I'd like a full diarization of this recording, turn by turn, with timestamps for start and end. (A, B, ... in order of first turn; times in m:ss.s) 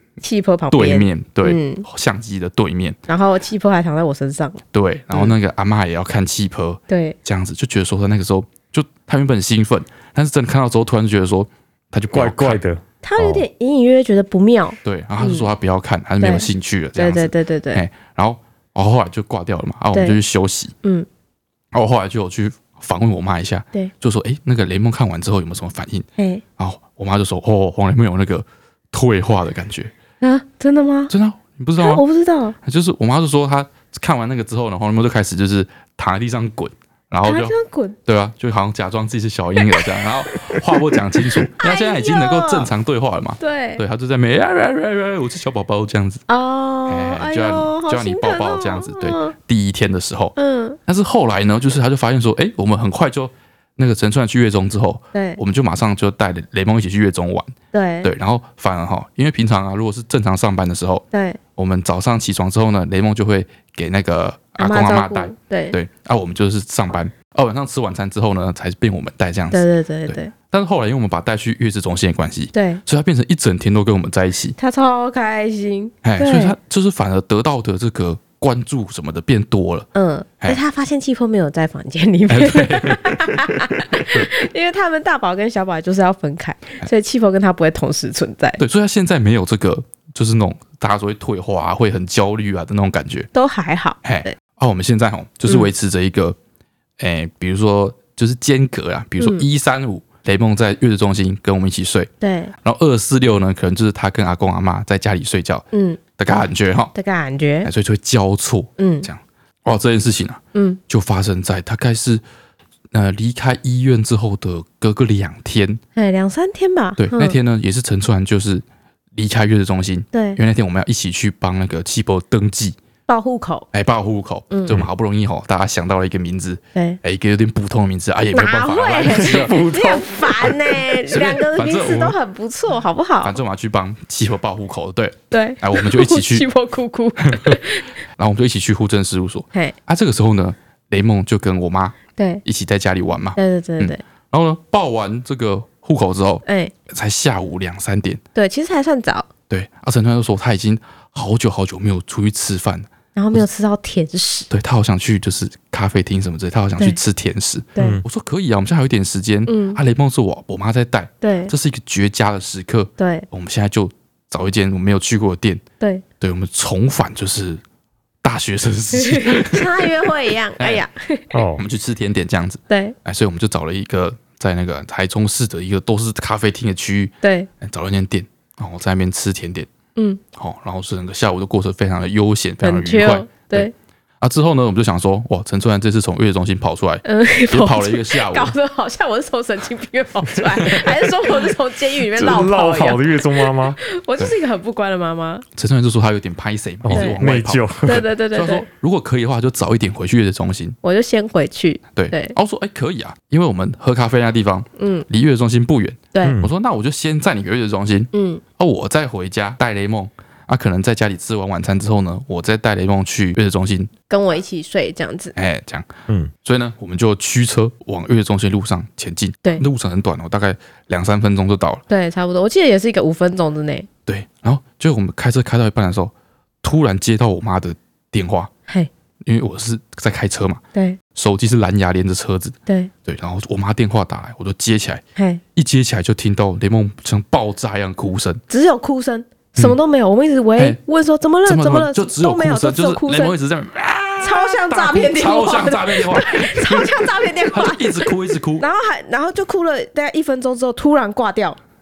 0:00.2-0:01.8 A
0:00.7-0:03.0 B
0:03.1-0:04.6 A
0:04.7-0:12.6 B
0:06.9-0:07.2 A
0:12.1-0:13.4 C
0:13.0-0:15.5 A
0:14.8-0:20.7 B
0:16.2-0:17.8 A
0:19.9-0:20.2 A
0:21.7-0:26.1 B
0:26.2-0:26.4 A
0:26.6-0:29.9 B
0:30.2-0:31.1 A
0:31.1-0:32.0 B
0:31.8-0:32.6 A
0:32.6-0:37.5 B
0:37.2-0:38.0 A
0:38.0-0:46.2 B
0:39.6-0:42.7 A
0:43.4-0:43.8 A
0:46.3-0:49.3 A
0:46.9-0:50.3 B
0:50.4-0:50.8 A
0:50.8-1:01.0 B
0:55.1-0:55.4 A
0:57.7-0:58.1 A
1:01.1-1:01.4 A
1:01.6-1:14.6 B
1:04.6-1:05.8 A
1:09.5-1:10.3 A
1:12.5-1:12.8 A
1:14.6-1:16.5 A
1:16.0-1:19.9 B
1:19.9-1:28.6 A
1:22.3-1:24.3 B
1:28.6-1:33.3 B
1:33.3-1:34.4 A
1:34.0-1:36.4 B
1:37.0-1:42.1 B
1:42.2-1:42.5 A
1:42.6-1:45.6 B
1:45.7-1:46.0 A
1:46.2-1:46.9 B
1:46.9-1:47.7 A
1:47.6-1:52.2 B
1:48.8-1:49.1 A
1:50.5-1:50.8 A
1:52.9-1:55.8 B
1:56.0-1:57.4 A
1:57.0-2:02.8 B
2:00.1-2:00.4 A
2:03.1-2:03.7 A
2:03.7-2:09.6 B
2:04.5-2:04.8 A
2:06.7-2:07.0 A
2:08.3-2:13.4 A
2:09.1-2:10.6 C
2:10.9-2:12.2 B
2:13.2-2:16.5 B
2:15.3-2:17.9 A
2:17.2-2:17.6 B
2:18.2-2:28.2 B
2:22.2-2:22.4 A
2:23.4-2:24.0 A
2:26.4-2:26.7 A
2:28.3-2:29.3 A
2:29.5-2:33.4 B
2:33.1-2:34.5 A
2:34.5-2:45.6 B
2:37.8-2:38.0 A
2:37.8-2:38.0 C
2:39.5-2:39.8 A
2:41.2-2:41.5 A
2:43.0-2:43.2 A
2:46.2-2:47.6 B
2:48.2-2:50.8 B
2:48.9-2:51.4 A
2:51.3-2:51.6 C
2:51.6-2:59.7 B
2:52.7-2:53.0 A
2:57.2-2:57.5 A
3:00.0-3:00.2 A
3:00.3-3:03.7 B
3:02.6-3:03.7 A
3:04.2-3:08.5 B
3:07.0-3:15.4 A
3:12.2-3:13.8 C
3:15.6-3:20.8 B
3:16.8-3:18.0 C
3:16.9-3:17.2 A
3:17.8-3:18.6 A
3:20.8-3:22.4 A
3:21.9-3:33.9 B
3:24.8-3:25.0 A
3:26.2-3:26.5 C
3:28.1-3:28.4 A
3:34.1-3:35.3 A
3:35.4-3:35.9 B
3:36.4-3:41.8 B
3:41.9-3:43.9 A
3:44.0-3:48.5 B
3:49.2-3:50.6 B
3:50.7-3:51.0 A
3:51.1-3:55.0 B
3:55.2-3:55.4 A
3:55.5-3:58.4 B
3:58.5-4:03.3 A
4:01.4-4:08.7 B
4:04.2-4:11.6 A